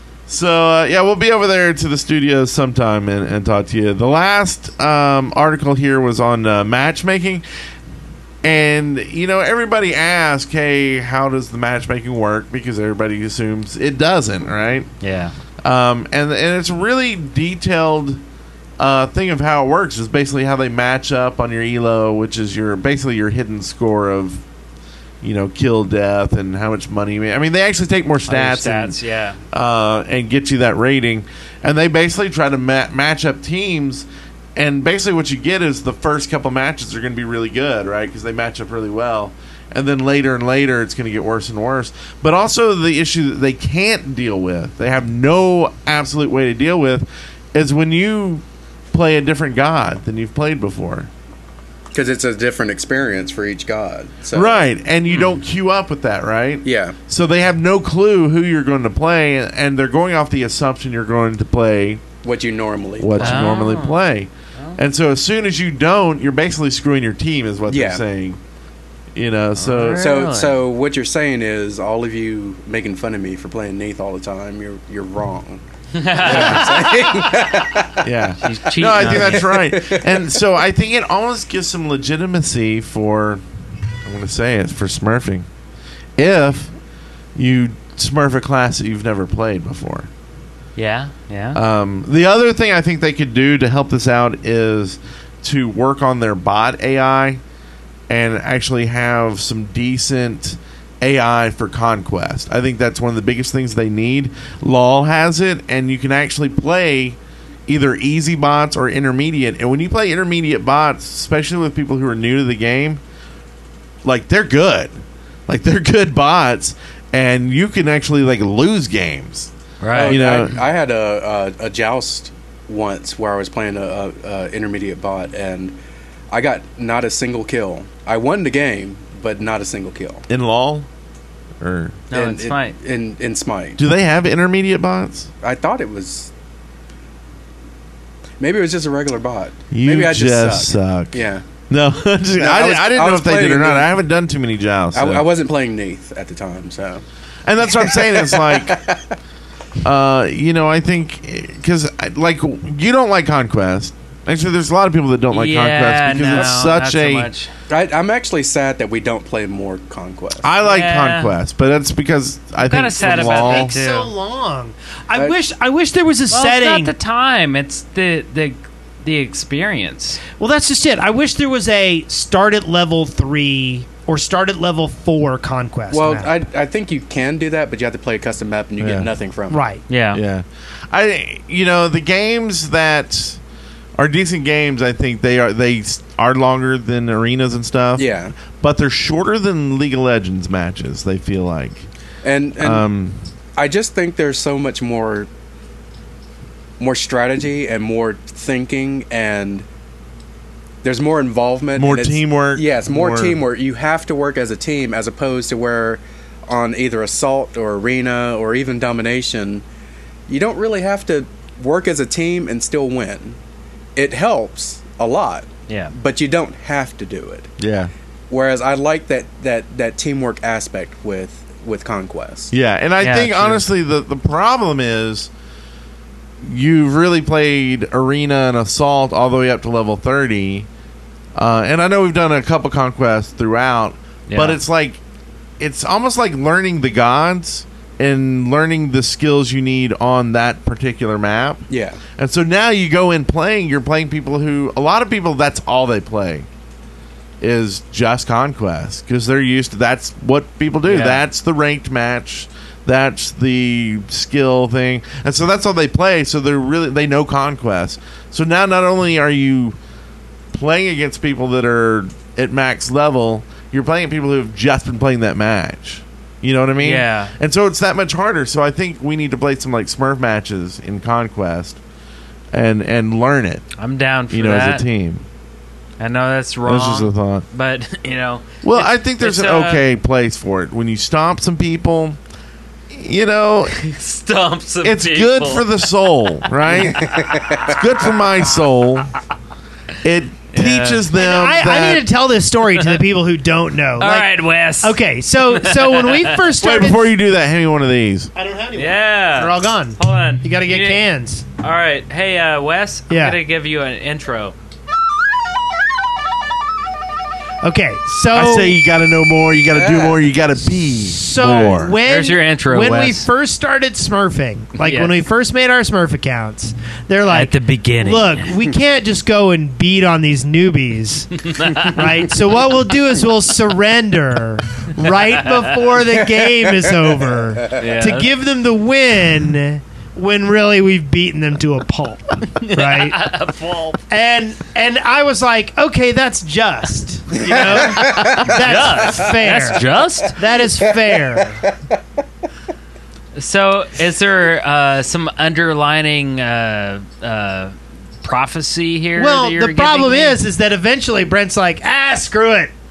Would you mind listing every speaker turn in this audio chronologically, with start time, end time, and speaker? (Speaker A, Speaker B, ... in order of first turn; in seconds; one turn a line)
Speaker A: 0.3-7.4
Speaker A: 8.4-14.9
Speaker B: 15.0-15.3
Speaker A: 15.6-18.2
Speaker A: 18.8-24.4
Speaker A: 25.2-29.0
Speaker B: 28.3-29.4
Speaker A: 29.5-51.1
Speaker C: 51.9-54.7
Speaker A: 54.3-62.0
Speaker B: 55.1-55.4
Speaker C: 56.6-57.0
Speaker C: 62.2-63.5
Speaker A: 63.0-68.4
Speaker B: 63.2-64.0
Speaker C: 67.7-68.0
Speaker A: 69.1-70.1
Speaker B: 69.6-70.6
Speaker C: 69.9-75.6
Speaker B: 75.9-77.0
Speaker C: 76.1-78.0
Speaker A: 76.2-76.7
Speaker D: 76.8-77.3
Speaker A: 78.0-83.4
Speaker B: 78.4-79.5
Speaker C: 79.1-80.3
Speaker A: 84.0-85.5
Speaker A: 86.2-86.7
Speaker A: 87.3-90.1
Speaker B: 90.8-91.6
Speaker A: 91.5-97.4
Speaker A: 98.1-113.0
Speaker A: 114.0-114.9
Speaker A: 115.5-119.5
Speaker B: 119.8-120.2
Speaker C: 119.9-125.8
Speaker A: 120.0-120.6
Speaker C: 126.3-130.2
Speaker A: 130.3-130.9
Speaker A: 131.6-132.0
Speaker B: 132.1-132.8
Speaker C: 132.1-133.8
Speaker A: 133.8-135.3
Speaker C: 135.4-136.3
Speaker C: 138.4-141.4
Speaker A: 139.7-145.3
Speaker C: 142.3-143.9
Speaker C: 144.9-147.0
Speaker A: 147.4-148.8
Speaker C: 147.6-149.0
Speaker A: 149.8-157.3
Speaker B: 155.3-157.5
Speaker C: 157.7-160.5
Speaker A: 160.4-163.8
Speaker B: 160.6-161.3
Speaker B: 162.7-164.1
Speaker D: 163.1-166.9
Speaker B: 166.3-170.2
Speaker D: 170.4-176.3
Speaker C: 175.9-179.6
Speaker A: 178.8-179.1
Speaker D: 179.5-179.8
Speaker B: 179.9-180.2
Speaker A: 180.1-183.4
Speaker A: 184.0-191.8
Speaker C: 187.9-188.3
Speaker C: 192.2-192.8
Speaker A: 192.6-193.2
Speaker C: 193.6-195.3
Speaker C: 196.8-199.7
Speaker C: 200.8-209.6
Speaker A: 201.8-203.4
Speaker C: 210.3-213.4
Speaker C: 213.9-217.5
Speaker B: 215.7-215.9
Speaker A: 217.6-217.9
Speaker C: 218.3-222.5
Speaker A: 222.5-225.3
Speaker B: 223.0-223.6
Speaker A: 226.4-230.7
Speaker A: 231.3-235.0
Speaker B: 234.3-234.6
Speaker A: 235.6-241.6
Speaker C: 241.7-242.0
Speaker A: 242.2-246.5
Speaker A: 247.4-259.8
Speaker B: 250.8-251.2
Speaker A: 260.5-271.8
Speaker B: 266.8-267.3
Speaker A: 272.5-273.7
Speaker B: 273.8-274.8
Speaker A: 274.3-275.2
Speaker B: 276.0-279.8
Speaker A: 276.6-277.4
Speaker A: 278.6-282.2
Speaker A: 282.9-283.8
Speaker B: 283.7-285.7
Speaker A: 284.8-289.1
Speaker B: 286.6-287.1
Speaker C: 286.9-287.8
Speaker A: 290.0-292.1
Speaker B: 290.5-291.1
Speaker D: 291.1-297.1
Speaker B: 294.0-295.0
Speaker B: 295.5-296.5
Speaker A: 296.6-298.3
Speaker D: 298.3-301.4
Speaker B: 298.7-301.0
Speaker B: 301.6-304.5
Speaker D: 303.1-303.4
Speaker D: 307.6-308.8
Speaker A: 308.3-312.0
Speaker C: 309.7-310.3
Speaker D: 310.9-333.2
Speaker B: 312.0-313.3
Speaker B: 314.8-315.2
Speaker B: 317.3-318.6
Speaker B: 321.5-322.1
Speaker B: 327.7-328.3
Speaker B: 332.6-334.0
Speaker D: 334.1-341.6
Speaker C: 337.4-338.5
Speaker B: 337.5-340.4
Speaker C: 340.7-341.7
Speaker B: 343.3-350.4
Speaker D: 349.1-352.7